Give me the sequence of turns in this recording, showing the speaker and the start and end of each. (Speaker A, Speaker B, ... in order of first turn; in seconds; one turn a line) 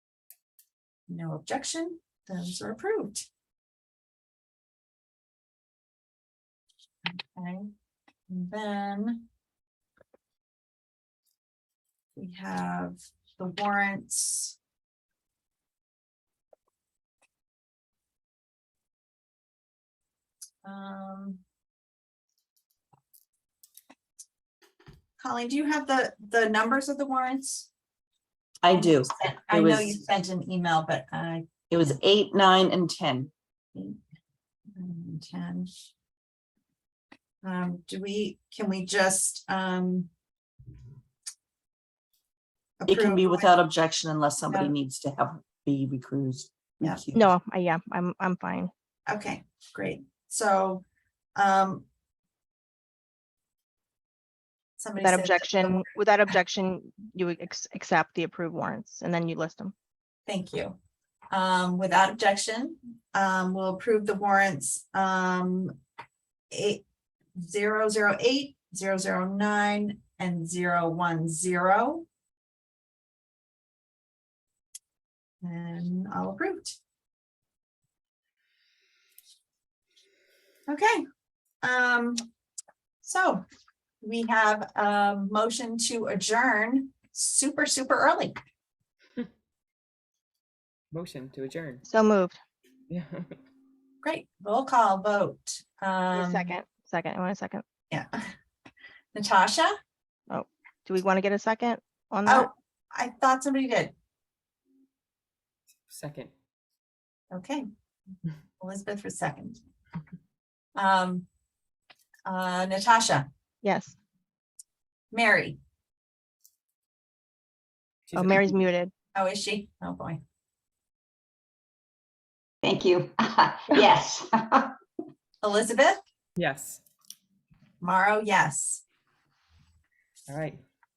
Speaker A: 1.1-3.3
Speaker A: 7.1-7.7
Speaker A: 8.3-9.2
Speaker A: 12.2-14.6
Speaker A: 20.6-21.4
Speaker A: 25.2-27.7
Speaker B: 28.6-29.9
Speaker A: 28.8-31.5
Speaker B: 31.7-33.3
Speaker A: 33.7-34.0
Speaker A: 34.7-35.9
Speaker A: 37.4-40.1
Speaker A: 42.8-43.5
Speaker B: 42.9-47.3
Speaker A: 44.5-44.7
Speaker C: 47.1-48.7
Speaker A: 49.1-50.8
Speaker A: 51.4-51.9
Speaker A: 54.8-55.8
Speaker C: 55.0-59.7
Speaker A: 60.2-60.8
Speaker A: 61.3-65.8
Speaker A: 66.5-66.8
Speaker A: 67.3-72.0
Speaker A: 75.4-76.8
Speaker A: 80.7-81.0
Speaker A: 81.6-82.2
Speaker A: 83.0-83.4
Speaker A: 84.0-88.4
Speaker D: 90.9-91.8
Speaker C: 91.8-92.4
Speaker D: 92.9-93.4
Speaker A: 94.0-96.6
Speaker C: 96.1-97.6
Speaker A: 97.9-98.2
Speaker A: 99.1-99.8
Speaker C: 100.3-102.5
Speaker A: 102.2-103.9
Speaker D: 105.9-106.3
Speaker A: 107.3-107.6
Speaker A: 108.6-109.6
Speaker A: 110.8-111.2
Speaker A: 112.2-113.3
Speaker C: 113.6-114.0
Speaker A: 115.1-115.6
Speaker D: 118.1-118.6
Speaker C: 118.1-118.9
Speaker A: 119.1-120.2
Speaker E: 122.6-124.8
Speaker A: 125.4-126.0
Speaker D: 126.4-126.8
Speaker A: 127.8-128.8
Speaker D: 130.3-130.6